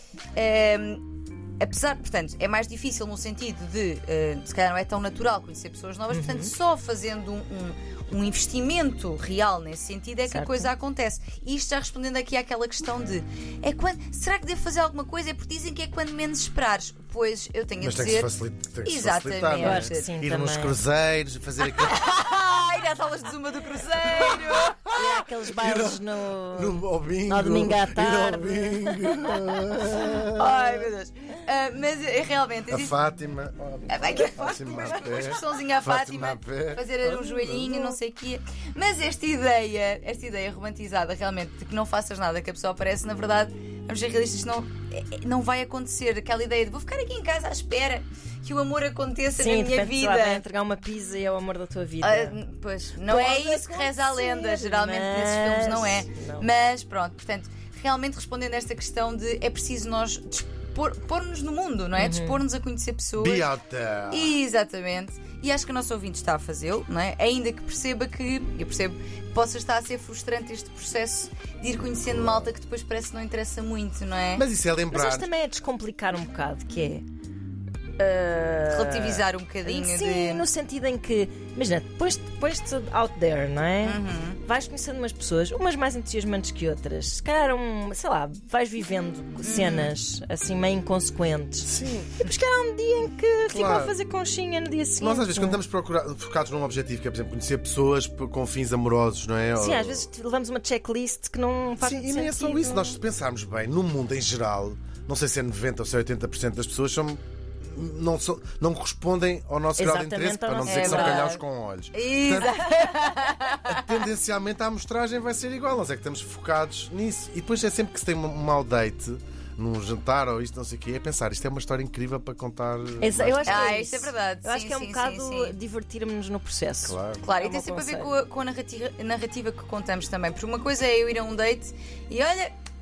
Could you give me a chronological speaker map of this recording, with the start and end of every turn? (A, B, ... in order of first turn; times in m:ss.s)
0:00.3-0:18.3 A
0:06.1-0:06.5 B
0:10.3-0:10.7 B
0:17.8-0:22.0 C
0:18.8-0:20.1 A
0:19.5-0:20.8 B
0:21.6-0:24.9 A
0:24.1-0:24.6 C
0:24.9-0:29.5 B
0:25.5-0:30.5 C
0:30.2-0:33.0 A
0:32.7-0:36.9 C
0:33.9-0:50.4 A
0:49.3-0:52.4 B
0:52.0-1:03.5 A
0:53.0-0:56.5 B
1:02.0-1:02.4 B
1:03.2-1:04.3 C
1:04.1-1:14.4 A
1:14.3-1:15.3 C
1:14.9-1:17.0 B
1:18.0-1:35.6 B
1:18.6-1:20.5 A
1:23.8-1:24.4 A
1:29.4-1:29.9 A
1:31.6-1:32.1 C
1:33.5-1:33.9 C
1:35.0-1:40.1 C
1:39.6-1:43.0 B
1:41.8-1:52.7 C
1:49.8-1:51.4 B
1:50.6-1:51.4 A
1:51.9-1:53.8 A
1:53.6-2:03.6 C
2:03.0-2:08.1 B
2:03.4-2:05.6 A
2:06.8-2:07.2 C
2:07.2-2:12.5 A